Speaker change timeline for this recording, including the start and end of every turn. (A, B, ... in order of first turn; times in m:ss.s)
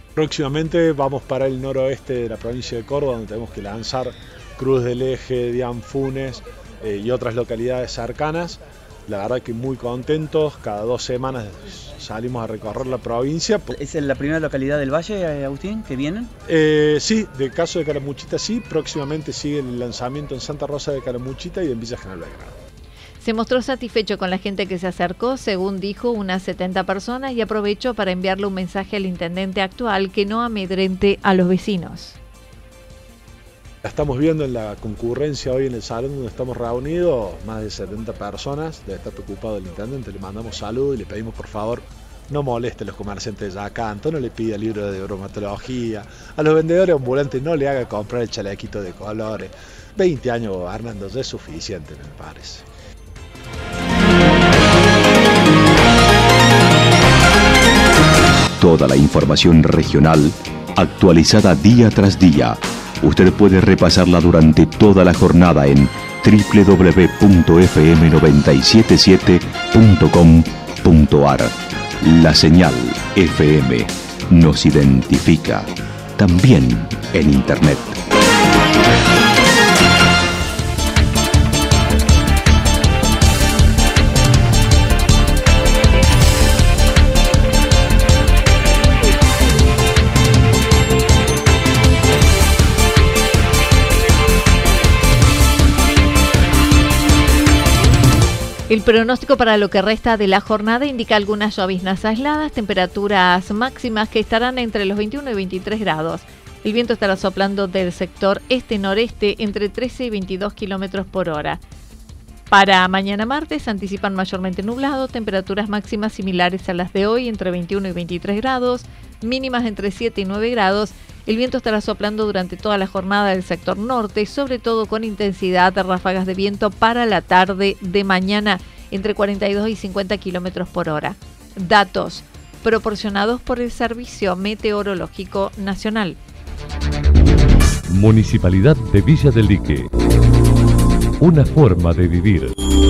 0:00.2-0:13.7 A
0:13.7-0:16.3 B
0:16.5-0:22.5 A
0:23.2-0:32.2 C
0:33.8-0:52.6 A
0:58.6-1:18.0 D
1:38.7-1:51.6 C
1:52.5-2:16.2 C
2:17.9-2:19.9 E
2:21.2-2:22.5 E